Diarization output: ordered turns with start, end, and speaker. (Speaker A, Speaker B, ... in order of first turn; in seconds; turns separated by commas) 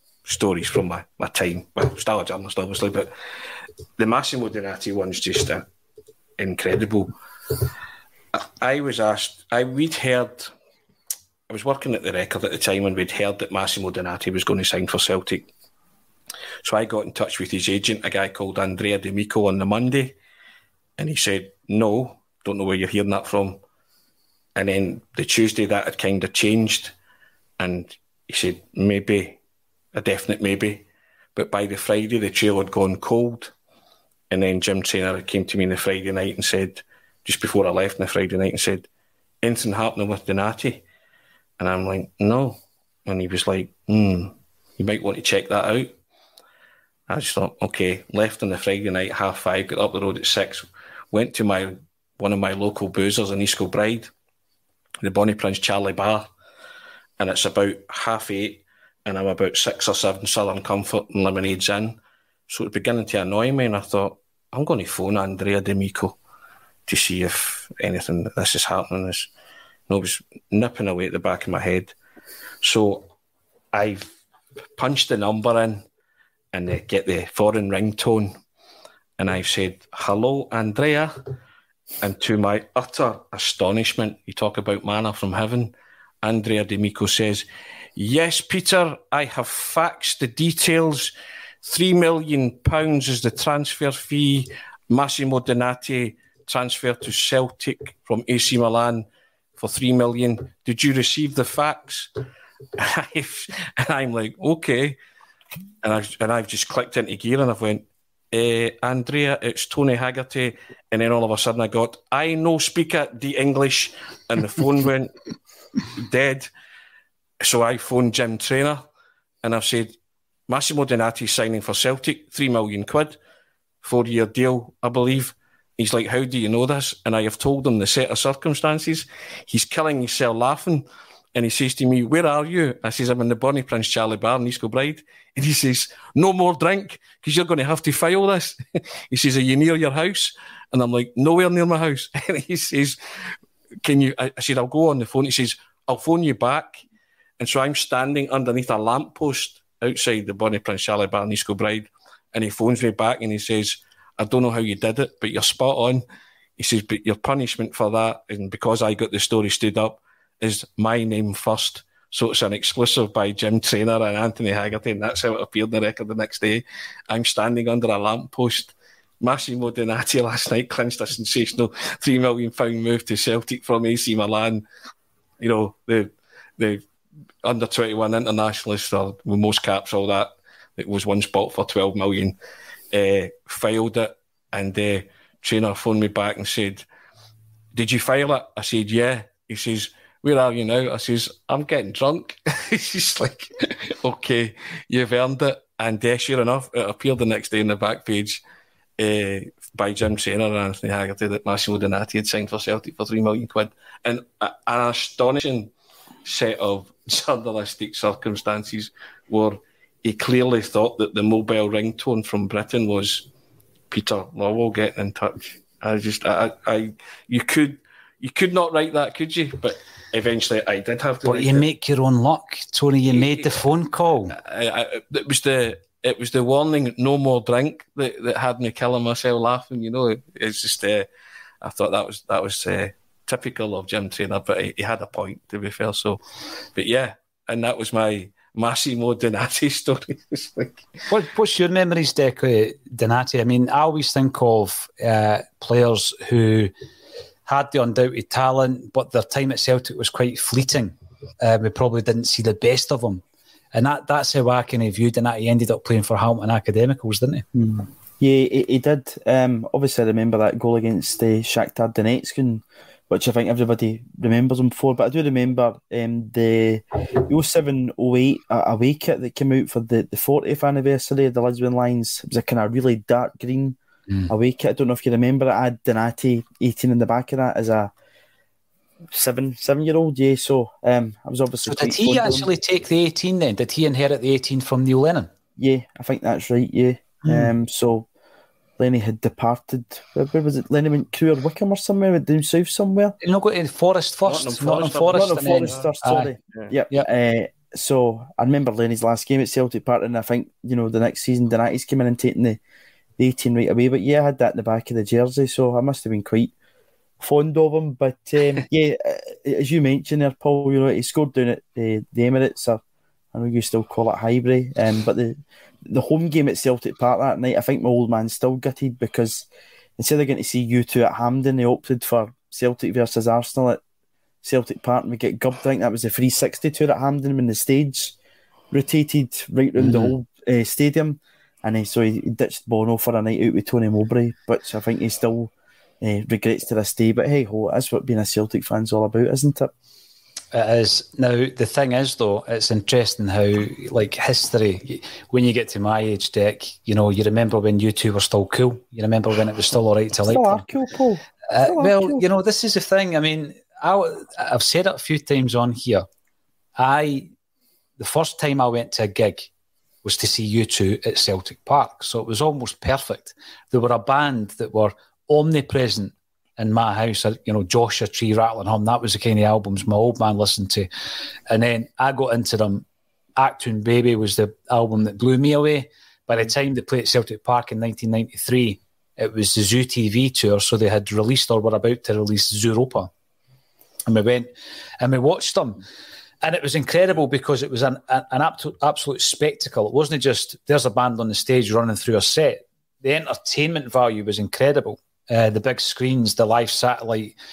Speaker A: 0.2-3.1, Speaker A: 4.0-5.7, Speaker A: 6.4-7.1, Speaker A: 8.3-10.5, Speaker A: 11.5-15.5, Speaker A: 16.6-20.1, Speaker A: 21.0-23.6, Speaker A: 24.5-26.9, Speaker A: 27.6-29.4, Speaker A: 29.9-33.5, Speaker A: 34.3-38.9, Speaker A: 39.4-40.8, Speaker A: 41.6-45.9, Speaker A: 47.1-54.1, Speaker A: 55.0-56.3, Speaker A: 57.2-66.2, Speaker A: 66.8-69.3, Speaker A: 69.9-71.9, Speaker A: 72.6-73.1, Speaker A: 73.7-74.1, Speaker A: 74.8-75.8, Speaker A: 76.5-78.3, Speaker A: 79.2-81.3, Speaker A: 82.0-99.0, Speaker A: 99.6-102.2, Speaker A: 102.8-105.0, Speaker A: 105.8-115.1, Speaker A: 115.9-116.5, Speaker A: 117.4-118.9, Speaker A: 119.4-120.0, Speaker A: 120.5-123.1, Speaker A: 123.8-143.0, Speaker A: 143.8-146.8, Speaker A: 147.4-156.0, Speaker A: 156.6-174.6, Speaker A: 175.4-176.8, Speaker A: 177.4-182.4, Speaker A: 182.9-186.8, Speaker A: 187.7-198.4, Speaker A: 199.0-205.7, Speaker A: 206.2-213.3, Speaker A: 213.9-221.6, Speaker B: 221.2-224.3, Speaker A: 223.1-223.5, Speaker A: 224.3-231.1, Speaker A: 231.6-236.2, Speaker A: 236.7-241.0, Speaker B: 241.1-246.7, Speaker B: 247.4-253.2, Speaker B: 253.7-257.4, Speaker C: 257.5-273.8, Speaker C: 274.3-277.9, Speaker C: 279.1-282.5, Speaker B: 281.6-285.3, Speaker C: 285.6-288.1, Speaker B: 287.2-287.5, Speaker C: 288.8-293.1, Speaker B: 293.2-296.3, Speaker A: 294.2-295.9, Speaker C: 295.1-302.6, Speaker C: 303.2-306.5, Speaker C: 307.2-312.8, Speaker C: 313.3-319.5, Speaker C: 320.0-323.8, Speaker C: 324.4-328.1, Speaker C: 328.7-339.7, Speaker B: 329.8-330.1, Speaker B: 340.5-350.6, Speaker C: 350.2-352.2, Speaker B: 351.5-356.1, Speaker B: 356.8-357.3, Speaker B: 358.0-359.5, Speaker B: 360.0-370.9, Speaker B: 371.5-372.8, Speaker B: 373.4-383.1, Speaker B: 384.1-384.5, Speaker B: 385.0-385.8, Speaker B: 386.4-397.3